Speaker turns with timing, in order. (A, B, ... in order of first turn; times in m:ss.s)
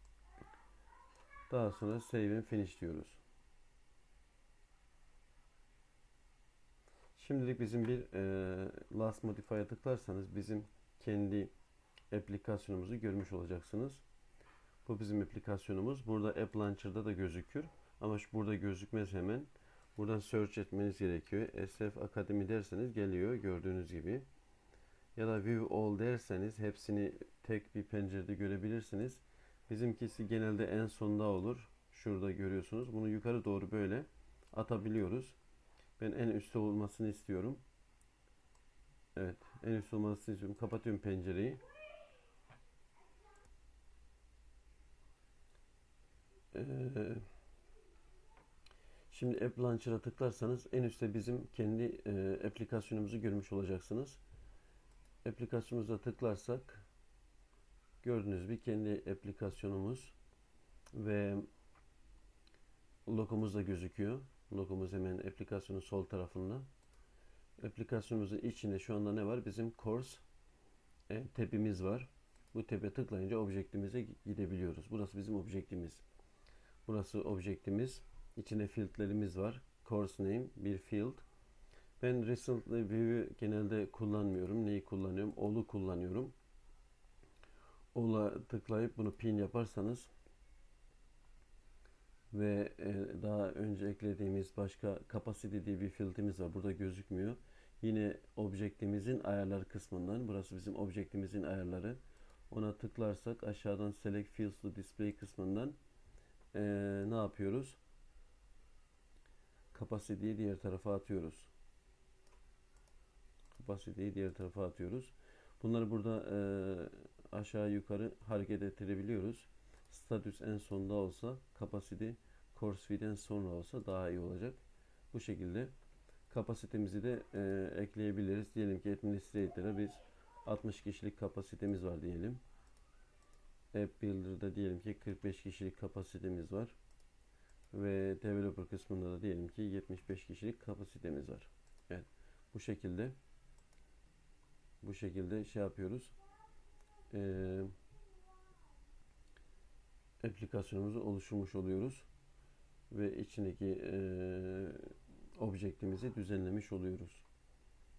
0:01.5-0:03.2 A
0:07.2-0:11.5 A
0:12.1-0:14.0 A
0:14.8-0:24.3 A
0:25.2-0:35.4 A
0:36.0-0:37.6 A
0:39.2-0:41.6 A
0:46.5-0:47.2 A
0:49.1-0:54.2 A
0:55.2-0:56.8 A
0:58.0-1:00.1 A
1:00.9-1:01.5 A
1:03.1-1:06.7 A
1:07.6-1:10.2 A
1:11.1-1:16.0 A
1:16.9-1:21.2 A
1:22.0-1:26.3 A
1:27.9-1:30.1 A
1:32.3-1:42.0 A
1:42.5-1:45.8 A
1:46.5-1:47.8 A
1:49.7-1:51.5 A
1:53.6-2:05.7 A
2:06.3-2:12.4 A
2:13.7-2:16.8 A
2:17.7-2:23.2 A
2:24.8-2:26.2 A
2:27.1-2:27.7 A
2:30.2-2:32.1 A
2:32.9-2:37.2 A